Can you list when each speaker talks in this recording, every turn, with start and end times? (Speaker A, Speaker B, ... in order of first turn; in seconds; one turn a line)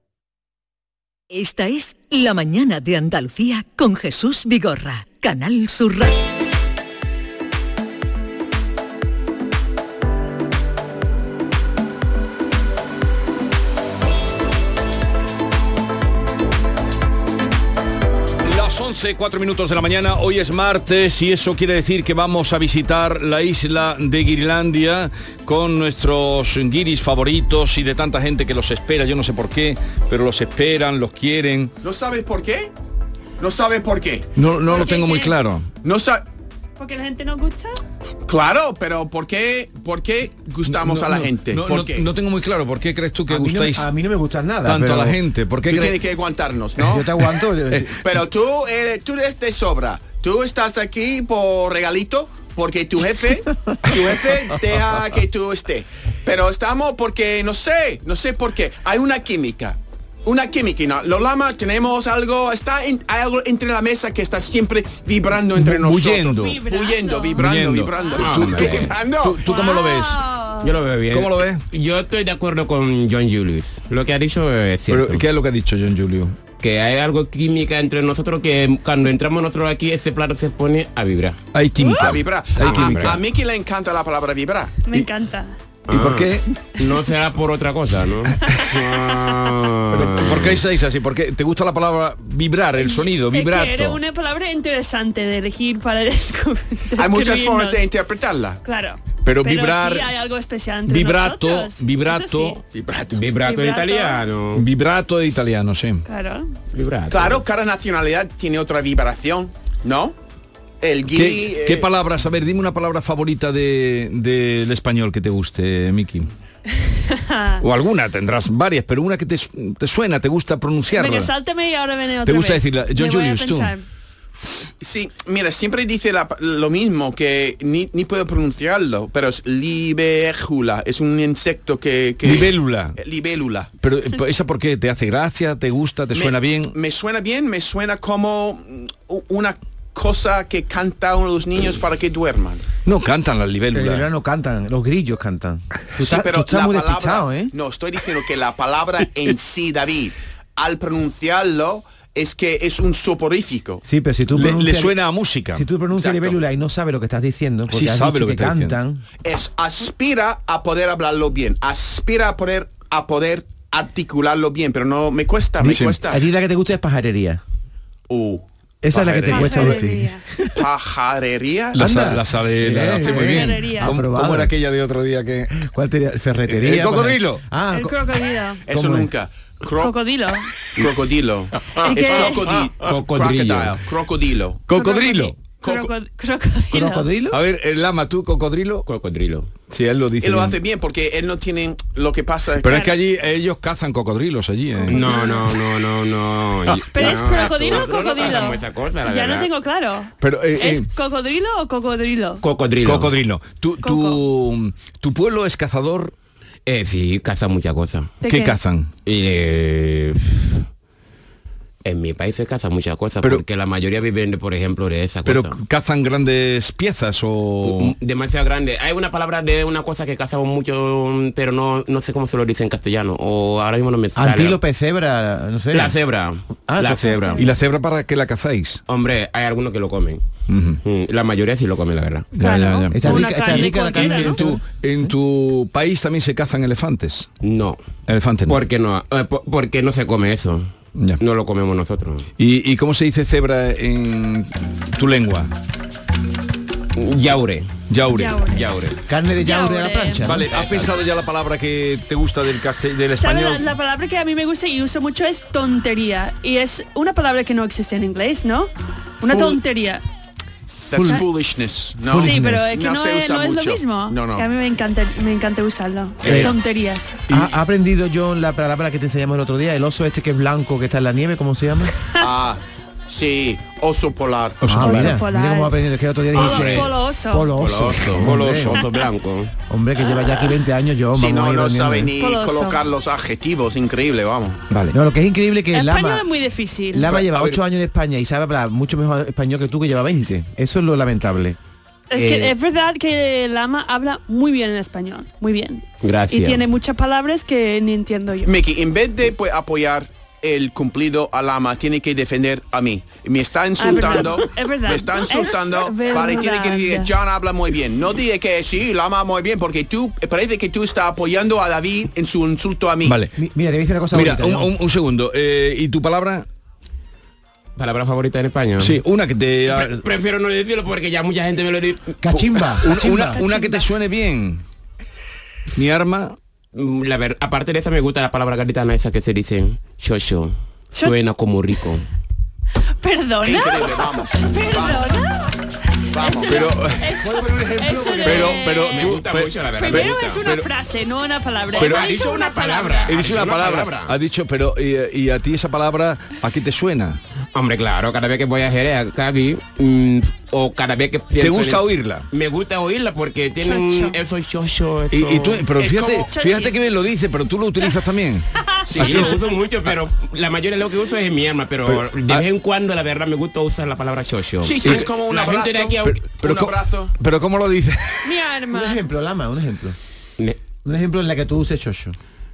Speaker A: 1.3-6.3
Speaker B: 18.4-31.7
Speaker C: 31.8-32.7
Speaker C: 33.4-34.3
Speaker B: 34.4-35.7
Speaker D: 34.7-35.3
Speaker C: 35.8-36.2
Speaker D: 36.8-37.8
Speaker C: 38.2-42.1
Speaker B: 40.7-43.9
Speaker E: 43.3-45.2
Speaker B: 44.6-46.0
Speaker C: 45.6-47.2
Speaker E: 46.8-48.1
Speaker C: 47.9-69.5
Speaker B: 65.5-66.6
Speaker D: 66.2-67.4
Speaker B: 67.3-70.2
Speaker D: 67.9-68.5
Speaker F: 68.2-68.9
Speaker D: 69.4-70.7
Speaker F: 70.6-75.2
Speaker B: 71.1-71.6
Speaker B: 74.9-76.4
Speaker F: 76.6-81.4
Speaker B: 81.5-83.2
Speaker D: 81.8-82.1
Speaker C: 82.0-84.8
Speaker F: 82.6-83.2
Speaker D: 84.8-85.6
Speaker F: 85.9-90.6
Speaker B: 85.9-86.5
Speaker D: 88.5-88.7
Speaker B: 89.9-94.0
Speaker D: 92.8-97.9
Speaker C: 97.0-98.6
Speaker D: 98.6-102.6
Speaker B: 99.2-100.1
Speaker B: 100.9-102.6
Speaker C: 102.8-103.1
Speaker F: 103.1-104.7
Speaker D: 103.4-104.2
Speaker B: 104.5-106.0
Speaker D: 106.0-106.5
Speaker F: 106.7-107.4
Speaker C: 107.1-110.2
Speaker C: 110.8-111.9
Speaker B: 111.1-116.3
Speaker D: 116.8-117.6
Speaker B: 117.6-121.3
Speaker D: 120.9-123.8
Speaker B: 122.2-123.7
Speaker C: 124.8-133.7
Speaker B: 132.2-133.0
Speaker B: 133.8-136.7
Speaker C: 136.1-142.7
Speaker B: 142.8-144.1
Speaker E: 143.7-147.5
Speaker C: 146.0-153.8
Speaker E: 153.8-155.0
Speaker B: 154.3-155.6
Speaker E: 155.5-159.0
Speaker B: 157.7-158.8
Speaker C: 159.2-166.2
Speaker E: 165.6-167.4
Speaker B: 165.6-166.0
Speaker C: 168.1-169.8
Speaker E: 168.8-170.3
Speaker D: 169.3-170.2
Speaker C: 170.5-171.9
Speaker E: 171.7-174.5
Speaker B: 171.7-175.6
Speaker D: 173.0-174.0
Speaker E: 175.5-178.0
Speaker B: 176.5-177.4
Speaker D: 177.7-178.6
Speaker C: 178.7-179.9
Speaker E: 178.7-179.1
Speaker D: 179.8-180.5
Speaker C: 180.7-184.7
Speaker D: 181.7-182.5
Speaker F: 182.8-183.8
Speaker B: 184.7-185.4
Speaker D: 184.7-187.1
Speaker C: 185.6-185.9
Speaker E: 186.7-187.4
Speaker B: 187.3-188.9
Speaker F: 188.9-189.5
Speaker B: 189.7-190.6
Speaker C: 190.2-192.9
Speaker B: 192.6-195.3
Speaker D: 192.7-192.9
Speaker D: 194.8-195.4
Speaker F: 194.9-199.5
Speaker D: 196.9-202.4
Speaker B: 197.0-197.3
Speaker B: 200.2-200.9
Speaker F: 202.4-203.1
Speaker B: 202.8-206.1
Speaker D: 203.8-204.2
Speaker F: 206.7-208.1
Speaker D: 208.2-208.6
Speaker B: 208.2-208.9
Speaker F: 209.0-210.6
Speaker F: 211.8-215.6
Speaker B: 215.2-217.9
Speaker F: 217.6-224.6
Speaker E: 224.2-226.0
Speaker F: 225.7-227.4
Speaker E: 226.7-227.2
Speaker B: 227.4-228.8
Speaker F: 228.9-230.2
Speaker B: 230.5-230.8
Speaker F: 230.8-232.3
Speaker B: 232.3-237.3
Speaker D: 232.4-234.4
Speaker E: 232.9-234.6
Speaker F: 237.4-237.8
Speaker B: 238.1-238.6
Speaker F: 238.5-242.3
Speaker B: 242.4-245.5
Speaker F: 246.9-247.7
Speaker B: 247.9-248.4
Speaker D: 248.1-248.6
Speaker F: 248.5-249.0
Speaker E: 249.1-250.9
Speaker D: 249.4-250.3
Speaker B: 250.2-253.7
Speaker D: 253.1-258.7
Speaker D: 259.2-260.0
Speaker C: 259.3-259.6
Speaker C: 260.9-264.5
Speaker E: 260.9-261.3
Speaker D: 261.0-261.2
Speaker E: 262.0-262.7
Speaker D: 262.1-267.2
Speaker C: 266.2-266.5
Speaker E: 267.3-271.9
Speaker C: 272.2-274.8
Speaker B: 274.6-275.1
Speaker E: 274.6-278.8
Speaker D: 274.8-275.8
Speaker D: 276.3-277.5
Speaker F: 276.3-276.9
Speaker F: 277.6-279.5
Speaker E: 279.7-282.1
Speaker C: 281.1-284.6
Speaker D: 282.2-282.8
Speaker E: 284.9-286.3
Speaker D: 285.7-287.2
Speaker E: 286.9-291.6
Speaker B: 287.1-287.6
Speaker D: 292.1-298.5
Speaker E: 292.1-292.5
Speaker F: 296.0-296.6
Speaker C: 298.5-313.2
Speaker D: 303.8-307.1
Speaker B: 313.0-313.3
Speaker E: 313.4-314.7
Speaker B: 314.1-316.4
Speaker F: 317.8-319.0
Speaker B: 318.8-320.1
Speaker F: 319.7-322.6
Speaker E: 322.2-323.4
Speaker B: 322.8-324.6
Speaker D: 323.3-323.9
Speaker B: 325.7-326.4
Speaker F: 326.7-332.1
Speaker D: 333.0-339.1
Speaker C: 333.4-335.1
Speaker C: 336.1-336.8
Speaker B: 336.5-337.0
Speaker E: 337.2-338.6
Speaker B: 338.2-340.6
Speaker F: 338.9-340.4
Speaker D: 339.8-343.2
Speaker F: 341.7-344.1
Speaker B: 341.8-342.1
Speaker B: 343.1-347.2
Speaker F: 347.5-355.7
Speaker B: 351.4-352.3
Speaker D: 353.6-354.2
Speaker B: 355.1-359.4
Speaker C: 355.8-356.3
Speaker D: 356.3-356.7
Speaker D: 358.6-359.4
Speaker C: 358.9-359.4
Speaker F: 358.9-366.1
Speaker B: 361.9-362.4
Speaker C: 364.6-367.1
Speaker B: 364.8-365.1
Speaker B: 366.0-368.3
Speaker D: 368.2-369.0
Speaker E: 368.7-370.0
Speaker E: 370.8-372.1